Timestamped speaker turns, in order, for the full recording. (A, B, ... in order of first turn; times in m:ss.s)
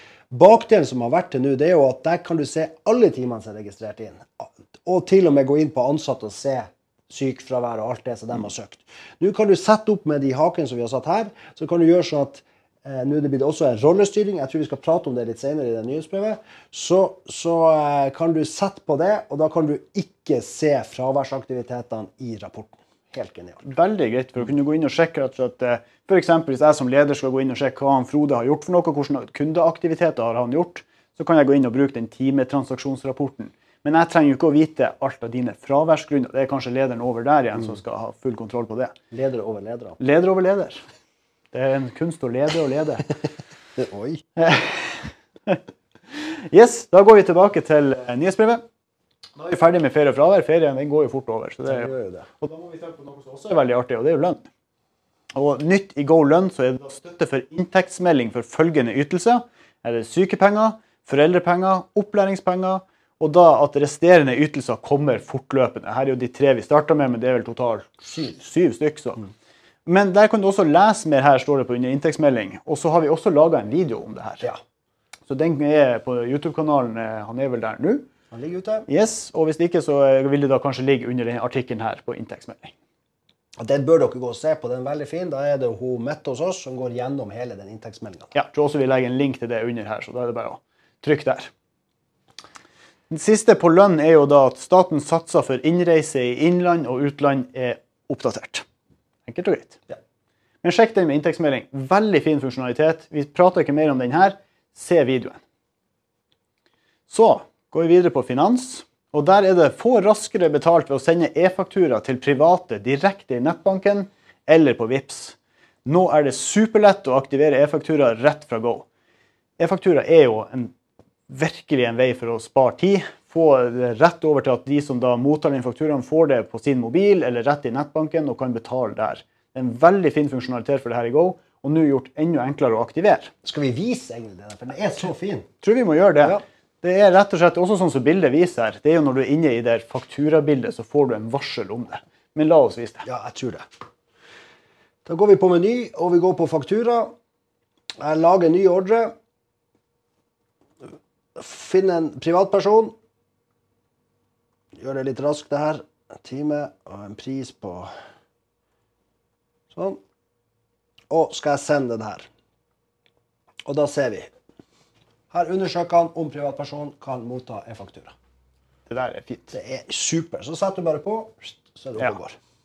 0:00.3-0:23.6 A
0:23.6-0:38.9 B
0:39.1-0:40.0 A
0:40.0-0:40.8 B
0:41.5-0:43.1 B
0:43.8-0:44.2 A
0:44.4-0:45.6 B
0:46.1-0:48.6 B
0:49.4-0:54.5 B
0:51.7-0:52.3 A
0:55.3-1:09.3 B
1:08.1-1:08.4 A
1:09.8-1:14.5 B
1:15.3-1:18.1 B
1:18.3-1:18.9 A
1:18.9-1:22.7 B
1:23.6-1:28.3 A
1:28.3-1:31.5 B
1:33.1-1:38.6 B
1:39.3-1:39.8 B
1:40.6-1:45.4 B
1:47.1-1:58.8 B
1:59.6-2:00.7 B
2:01.3-2:13.3 B
2:13.4-2:15.5 A
2:15.6-2:23.1 B
2:23.0-2:23.6 A
2:25.1-2:27.1 A
2:28.0-2:29.1 A
2:31.4-2:32.9 A
2:34.8-2:37.9 A
2:39.7-2:40.0 A
2:41.1-2:42.3 A
2:43.7-2:44.3 A
2:45.3-2:48.1 A
2:48.9-2:49.6 B
2:49.5-2:52.4 A